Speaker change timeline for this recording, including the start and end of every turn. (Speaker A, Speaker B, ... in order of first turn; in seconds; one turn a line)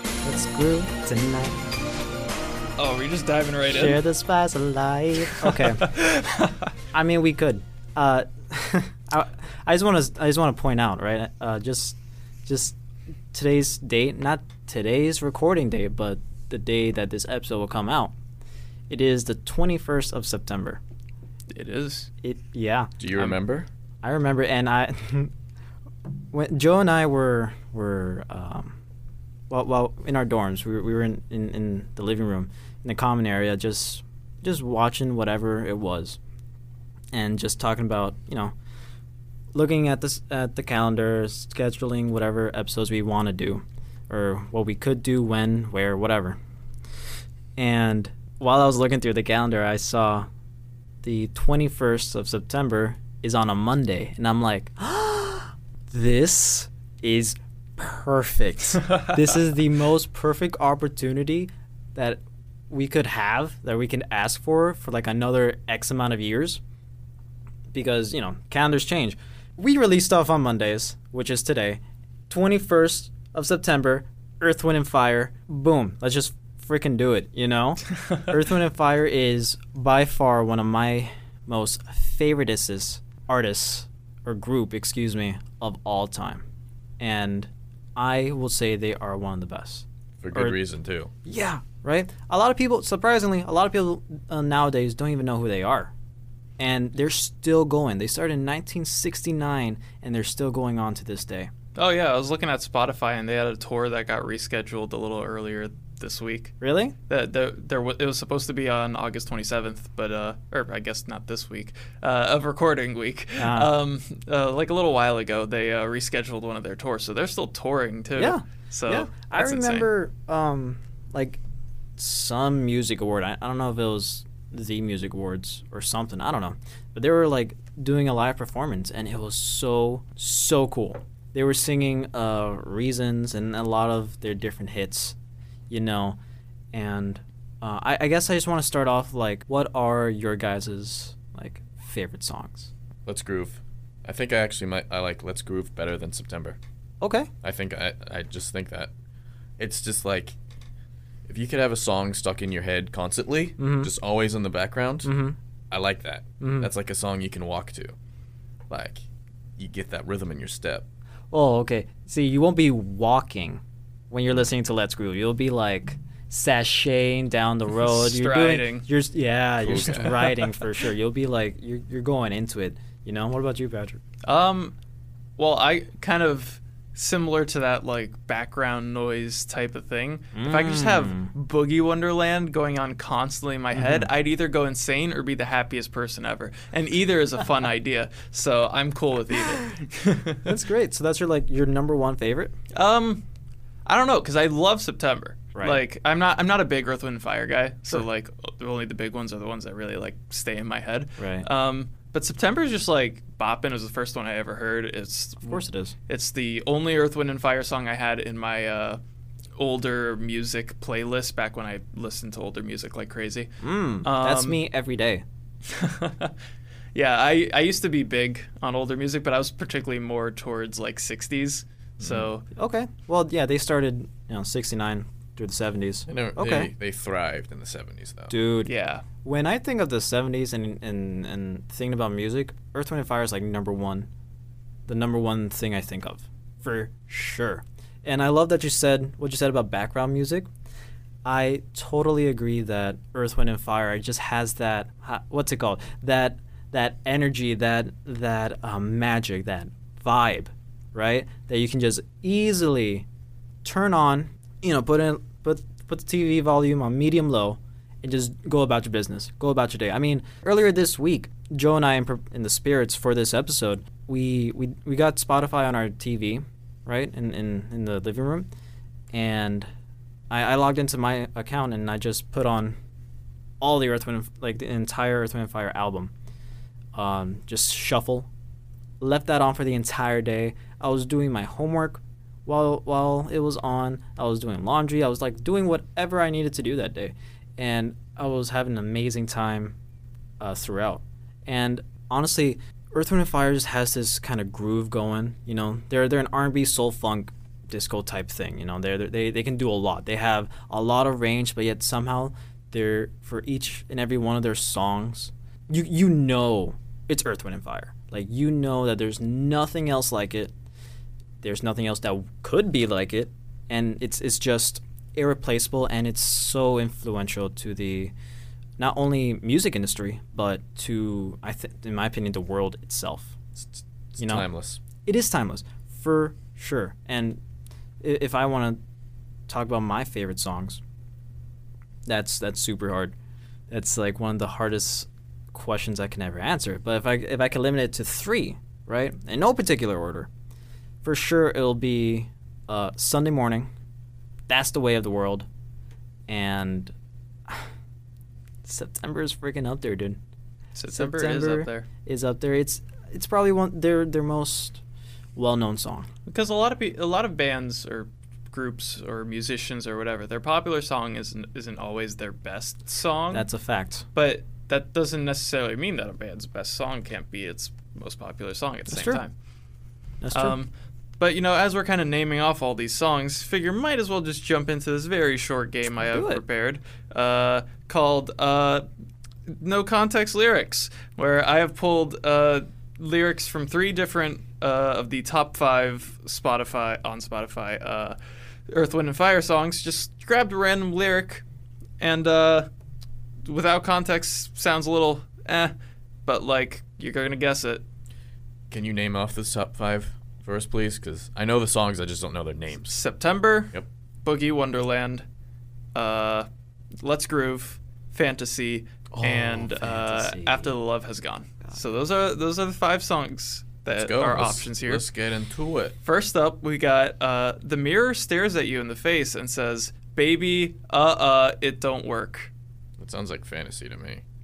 Speaker A: 0.2-1.6
Speaker B: 2.8-4.1
Speaker A: 3.7-5.8
Speaker B: 5.3-6.7
Speaker A: 6.9-12.8
Speaker A: 13.3-18.1
Speaker A: 18.9-20.8
Speaker B: 21.5-22.1
Speaker A: 22.2-23.4
Speaker C: 23.0-23.7
Speaker A: 24.0-25.3
Speaker A: 26.3-28.8
Speaker A: 29.5-36.2
Speaker A: 37.1-38.5
Speaker A: 39.5-46.4
Speaker A: 47.6-50.3
Speaker A: 51.0-66.6
Speaker A: 67.7-86.4
Speaker A: 87.0-90.6
Speaker C: 90.2-91.1
Speaker A: 91.2-95.9
Speaker A: 96.6-101.5
Speaker B: 101.8-106.5
Speaker A: 106.6-107.0
Speaker B: 107.1-119.9
Speaker A: 113.4-113.7
Speaker A: 118.2-121.4
Speaker A: 122.0-135.2
Speaker A: 135.7-136.2
Speaker A: 136.7-142.7
Speaker C: 143.1-146.6
Speaker A: 147.0-147.3
Speaker C: 147.4-148.9
Speaker C: 149.6-150.4
Speaker C: 151.3-155.1
Speaker A: 153.6-153.9
Speaker A: 155.0-155.4
Speaker C: 155.7-158.0
Speaker A: 156.4-156.7
Speaker C: 158.7-159.0
Speaker C: 159.6-160.8
Speaker A: 161.3-174.0
Speaker B: 167.8-168.9
Speaker C: 169.6-170.5
Speaker B: 174.2-174.8
Speaker B: 175.4-190.5
Speaker A: 180.3-181.3
Speaker A: 183.7-184.1
Speaker A: 190.4-192.5
Speaker B: 192.7-193.2
Speaker B: 193.9-209.0
Speaker A: 195.6-195.8
Speaker A: 201.2-201.5
Speaker A: 205.4-205.9
Speaker B: 209.6-213.5
Speaker A: 213.6-215.2
Speaker B: 214.0-214.6
Speaker B: 215.7-216.3
Speaker B: 216.9-222.4
Speaker C: 222.0-222.3
Speaker A: 222.6-226.7
Speaker C: 226.1-228.3
Speaker A: 228.3-228.7
Speaker B: 228.6-229.1
Speaker A: 229.2-234.1
Speaker A: 234.9-240.5
Speaker A: 241.2-253.1
Speaker A: 253.6-268.5
Speaker A: 269.1-269.7
Speaker A: 270.3-272.8
Speaker A: 273.6-276.1
Speaker A: 276.9-278.3
Speaker A: 279.0-289.8
Speaker A: 290.4-310.5
Speaker A: 311.4-318.1
Speaker A: 318.8-323.4
Speaker C: 323.6-324.8
Speaker A: 324.2-327.4
Speaker A: 328.0-328.8
Speaker A: 329.5-330.8
Speaker A: 332.1-333.1
Speaker A: 333.7-340.3
Speaker A: 341.0-343.7
Speaker A: 344.5-345.5
Speaker A: 346.3-346.9
Speaker A: 348.6-350.2
Speaker B: 350.8-351.9
Speaker A: 350.9-354.8
Speaker A: 355.4-356.1
Speaker B: 356.2-363.6
Speaker A: 363.3-364.1
Speaker B: 364.1-369.4
Speaker A: 368.9-369.2
Speaker A: 370.2-370.6
Speaker B: 370.3-378.9
Speaker A: 376.1-376.4
Speaker B: 379.5-388.2
Speaker B: 388.7-391.4
Speaker B: 392.0-392.7
Speaker B: 393.4-395.7
Speaker B: 396.2-397.8
Speaker C: 398.7-403.0
Speaker B: 402.8-405.3
Speaker B: 405.9-406.5
Speaker B: 407.0-415.1
Speaker A: 409.1-410.8
Speaker C: 413.9-416.0
Speaker B: 416.0-422.5
Speaker C: 423.0-424.2